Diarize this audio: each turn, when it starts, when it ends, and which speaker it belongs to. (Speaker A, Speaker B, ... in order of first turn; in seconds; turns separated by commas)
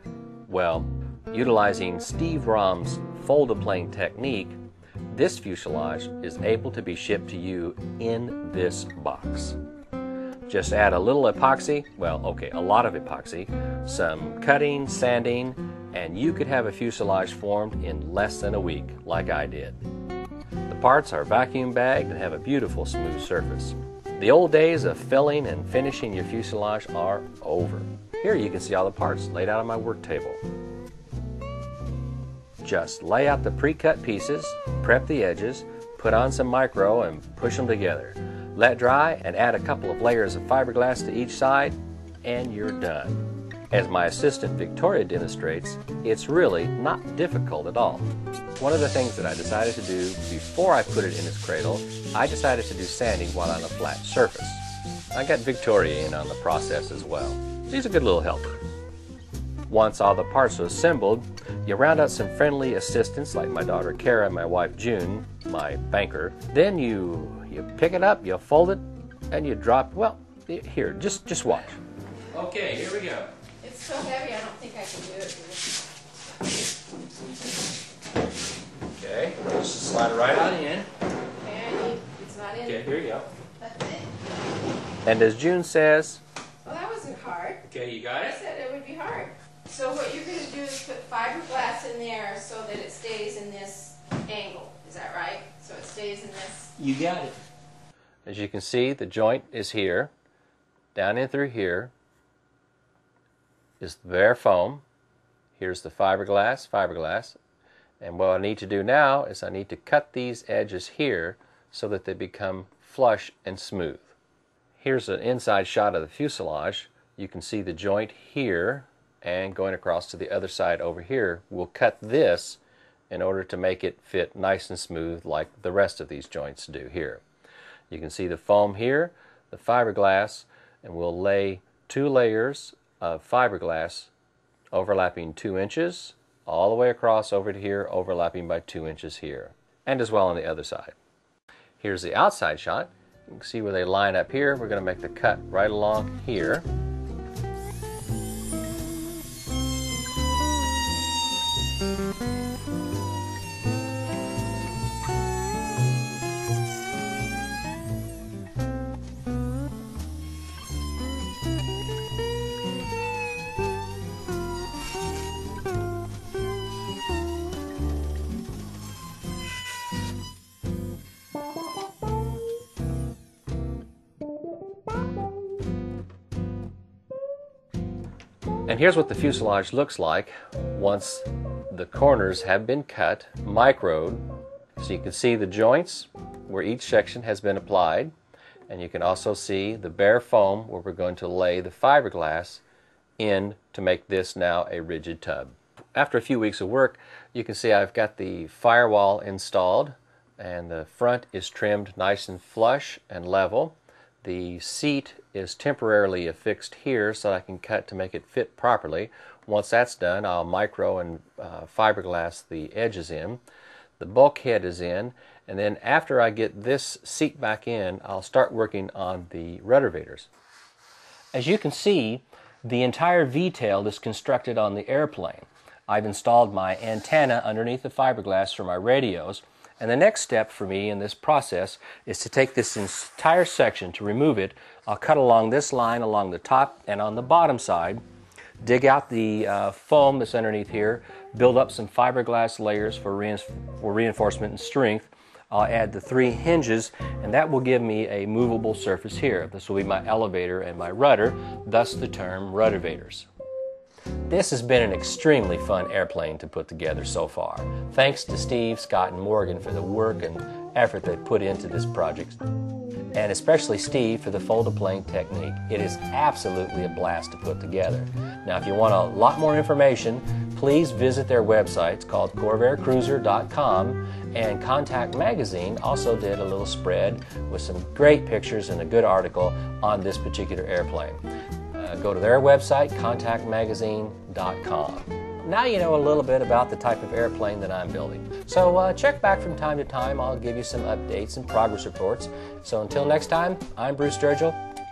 Speaker A: 0.5-4.6, Speaker A: 5.1-9.6, Speaker A: 10.4-19.8, Speaker A: 20.7-30.4, Speaker A: 32.6-58.6, Speaker A: 59.7-71.8, Speaker A: 72.3-73.3, Speaker B: 73.6-75.8, Speaker A: 78.9-80.9, Speaker B: 81.4-82.9, Speaker A: 82.6-83.3, Speaker B: 83.6-84.0, Speaker A: 85.0-86.2, Speaker B: 86.6-87.6, Speaker A: 87.6-88.4, Speaker B: 88.2-96.8, Speaker A: 96.8-97.4, Speaker A: 98.2-100.1, Speaker A: 100.9-101.9, Speaker A: 103.8-104.8, Speaker A: 105.5-107.4, Speaker A: 108.0-114.1, Speaker A: 114.8-127.2, Speaker A: 127.9-134.1, Speaker A: 134.7-140.9, Speaker A: 141.8-146.7, Speaker A: 178.7-184.2, Speaker A: 184.8-188.1, Speaker A: 188.7-192.6, Speaker A: 193.2-213.4, Speaker A: 214.0-220.3, Speaker A: 221.3-238.0, Speaker A: 238.6-253.3, Speaker A: 254.3-262.4, Speaker A: 263.1-281.2, Speaker A: 281.7-294.6